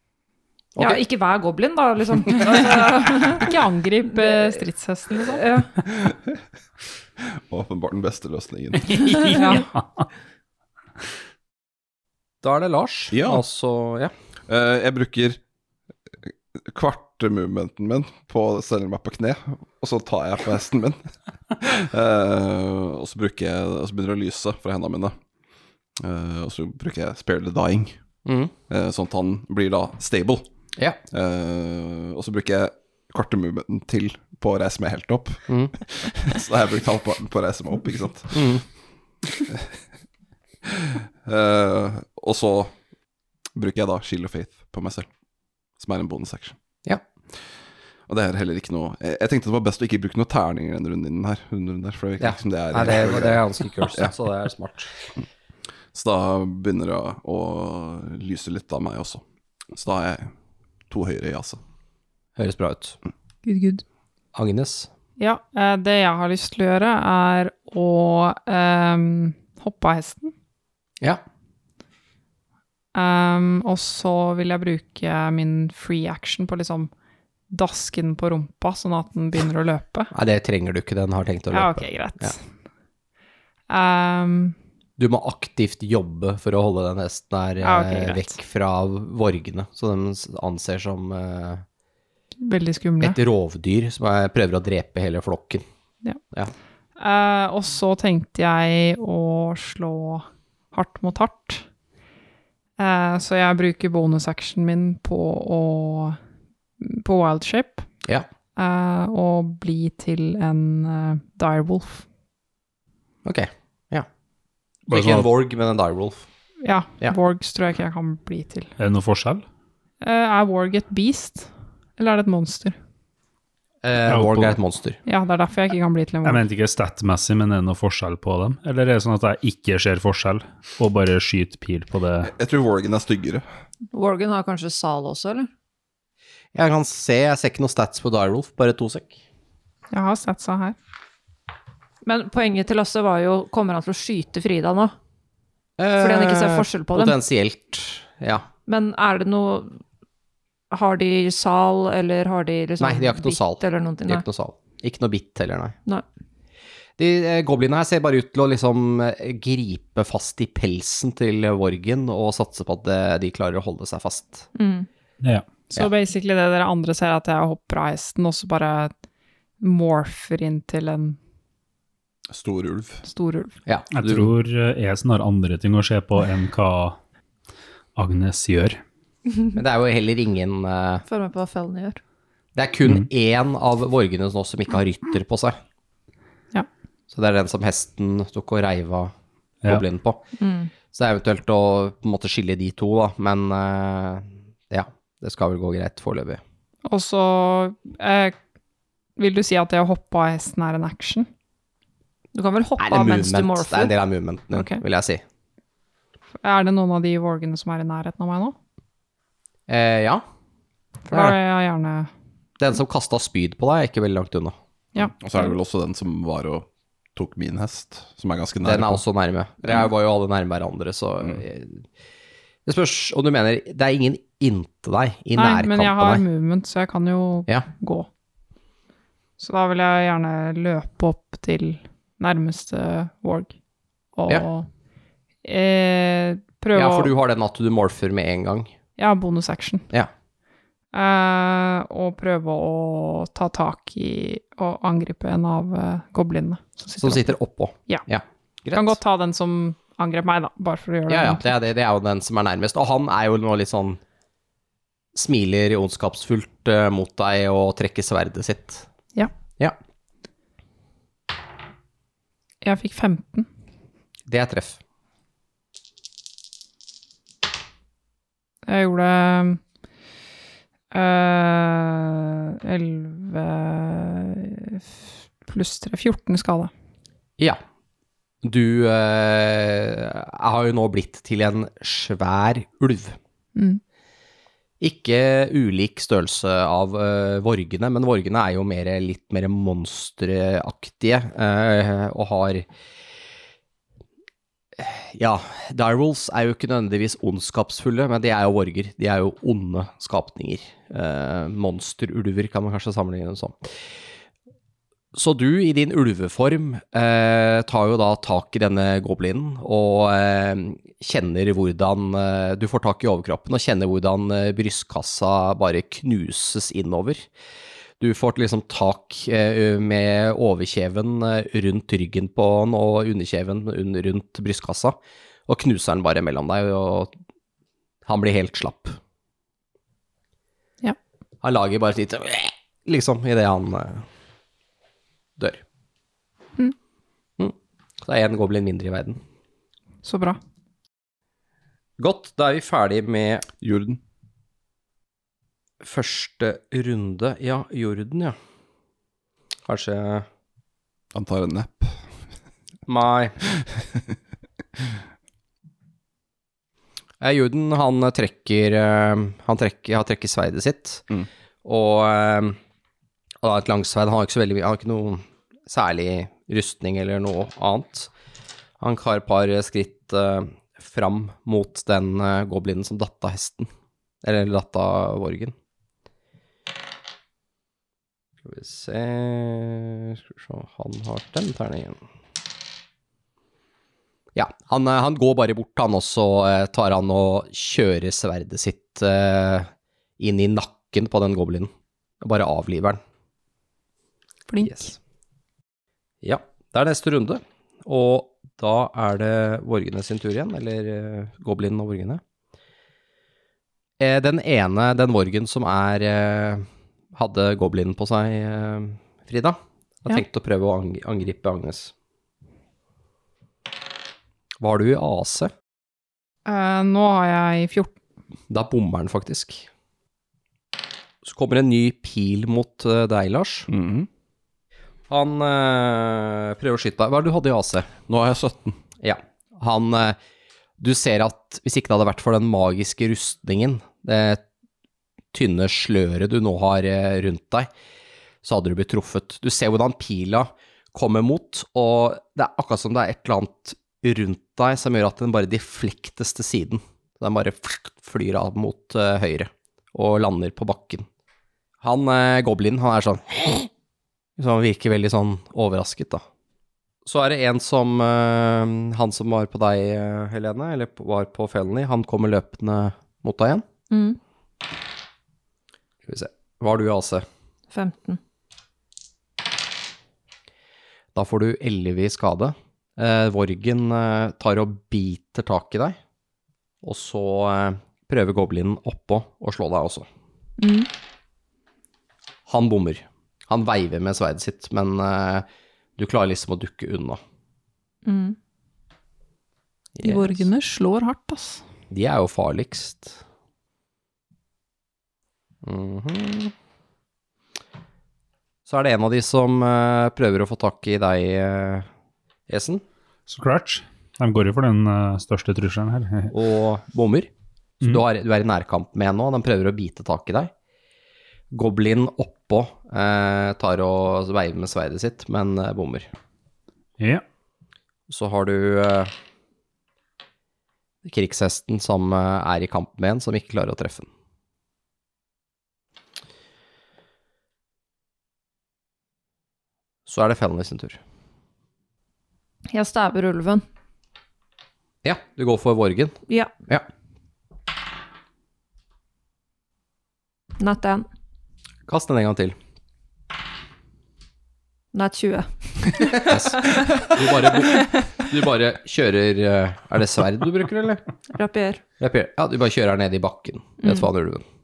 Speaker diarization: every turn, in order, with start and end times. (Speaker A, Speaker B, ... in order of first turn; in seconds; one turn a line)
Speaker A: 0.8-1.0
Speaker B: 0.8-3.5
Speaker C: 3.3-5.4
Speaker B: 4.1-4.6
Speaker B: 5.1-5.7
Speaker D: 5.9-6.4
Speaker D: 7.2-9.1
Speaker E: 8.8-10.1
Speaker C: 9.3-9.7
Speaker A: 12.4-14.1
Speaker D: 13.1-13.4
Speaker D: 14.5-15.4
Speaker D: 16.3-21.0
Speaker D: 21.6-25.1
Speaker D: 26.0-28.0
Speaker A: 28.2-28.5
Speaker D: 28.7-30.5
Speaker D: 31.1-38.5
Speaker A: 35.5-35.7
Speaker A: 38.3-38.6
Speaker D: 39.5-39.8
Speaker D: 40.6-42.7
Speaker D: 43.6-45.1
Speaker D: 45.8-46.6
Speaker D: 48.1-54.1
Speaker A: 52.2-54.9
Speaker D: 55.9-60.3
Speaker D: 60.9-61.6
Speaker A: 62.4-63.0
Speaker C: 63.5-63.8
Speaker A: 64.3-64.9
Speaker C: 65.2-70.3
Speaker C: 72.9-76.9
Speaker C: 77.5-80.1
Speaker A: 80.1-82.3
Speaker C: 81.5-82.4
Speaker C: 83.7-84.5
Speaker A: 85.0-91.6
Speaker C: 87.6-88.3
Speaker C: 92.4-93.2
Speaker A: 93.0-95.6
Speaker C: 97.0-101.6
Speaker C: 102.8-106.2
Speaker C: 106.8-107.9
Speaker C: 108.6-112.0
Speaker A: 113.2-114.1
Speaker E: 114.9-115.3
Speaker A: 114.9-116.3
Speaker C: 116.6-118.7
Speaker E: 118.8-119.4
Speaker C: 120.0-122.8
Speaker A: 123.8-125.0
Speaker E: 124.1-124.6
Speaker C: 125.1-126.5
Speaker E: 126.2-132.3
Speaker D: 132.3-133.4
Speaker B: 133.9-135.5
Speaker A: 136.6-139.2
Speaker C: 139.9-140.8
Speaker B: 142.1-144.9
Speaker A: 145.8-148.5
Speaker B: 146.0-147.2
Speaker B: 148.7-149.8
Speaker B: 150.7-154.2
Speaker A: 152.8-155.8
Speaker A: 157.0-164.5
Speaker B: 164.6-164.9
Speaker C: 165.7-168.9
Speaker C: 169.6-171.2
Speaker D: 172.3-173.0
Speaker C: 173.1-173.6
Speaker A: 173.7-174.3
Speaker E: 173.9-177.0
Speaker E: 178.0-178.8
Speaker A: 179.6-181.1
Speaker B: 181.1-182.0
Speaker A: 182.6-185.6
Speaker A: 187.1-189.1
Speaker A: 189.7-190.2
Speaker B: 190.4-190.7
Speaker A: 190.9-196.4
Speaker C: 196.9-198.4
Speaker C: 199.2-201.3
Speaker B: 202.3-203.9
Speaker A: 202.8-205.2
Speaker C: 204.5-204.8
Speaker C: 206.4-208.6
Speaker A: 209.7-210.2
Speaker C: 211.1-212.1
Speaker A: 211.1-211.4
Speaker A: 212.6-214.6
Speaker D: 215.2-219.0
Speaker A: 218.6-221.8
Speaker A: 222.7-226.2
Speaker C: 225.4-228.1
Speaker C: 229.4-233.5
Speaker C: 234.2-234.7
Speaker C: 235.4-237.1
Speaker A: 236.7-238.7
Speaker C: 239.0-239.9
Speaker C: 240.9-247.3
Speaker A: 247.0-249.0
Speaker C: 248.7-251.4
Speaker A: 251.1-254.0
Speaker A: 255.2-258.9
Speaker C: 262.6-263.5
Speaker A: 264.3-264.8
Speaker C: 268.7-269.6
Speaker C: 270.9-276.7
Speaker A: 278.4-283.2
Speaker C: 283.6-283.8
Speaker A: 284.8-292.7
Speaker A: 294.8-303.7
Speaker A: 305.1-317.3
Speaker A: 318.0-325.0
Speaker A: 325.5-327.1
Speaker A: 328.1-329.0
Speaker A: 331.4-334.1
Speaker A: 335.4-335.6
Speaker A: 337.4-339.2
Speaker C: 340.0-340.4
Speaker A: 342.0-343.5
Speaker D: 343.6-344.0
Speaker A: 345.8-348.4
Speaker A: 349.7-350.3
Speaker D: 351.1-352.0
Speaker A: 352.9-353.4
Speaker D: 353.6-354.1
Speaker A: 357.2-361.1
Speaker A: 361.6-362.6
Speaker A: 363.4-368.1
Speaker A: 368.8-373.7
Speaker A: 374.2-375.5
Speaker A: 378.4-382.0
Speaker A: 384.4-393.0
Speaker C: 394.5-394.9
Speaker A: 394.6-394.9
Speaker A: 396.2-402.2
Speaker A: 404.0-411.9
Speaker A: 414.6-415.5
Speaker C: 416.5-417.9
Speaker A: 418.5-419.7
Speaker A: 421.2-423.7
Speaker D: 423.7-424.1
Speaker A: 425.1-427.9
Speaker D: 428.1-428.8
Speaker A: 429.0-430.2
Speaker A: 430.8-434.4
Speaker A: 435.3-437.7
Speaker A: 438.4-451.1
Speaker A: 451.8-453.7
Speaker A: 454.4-456.2
Speaker A: 457.1-463.6
Speaker B: 463.9-464.2
Speaker A: 466.1-467.3
Speaker B: 467.7-468.2
Speaker A: 471.1-476.0
Speaker A: 476.8-480.1
Speaker B: 480.6-480.9
Speaker A: 482.5-485.5
Speaker A: 486.0-487.2
Speaker B: 488.1-488.4
Speaker A: 490.0-490.5
Speaker C: 490.0-491.6
Speaker A: 491.9-493.2
Speaker A: 495.6-496.5
Speaker A: 498.7-501.9
Speaker A: 502.5-502.8
Speaker E: 503.3-506.3
Speaker A: 506.3-507.3
Speaker A: 507.8-510.5
Speaker A: 511.5-516.1
Speaker E: 517.0-517.2
Speaker A: 518.1-519.1
Speaker A: 521.0-524.1
Speaker A: 530.1-531.0
Speaker B: 532.7-533.6
Speaker A: 535.0-536.2
Speaker B: 540.6-541.1
Speaker A: 541.9-542.5
Speaker B: 544.9-546.7
Speaker A: 546.2-551.0
Speaker B: 551.3-551.8
Speaker A: 552.0-554.4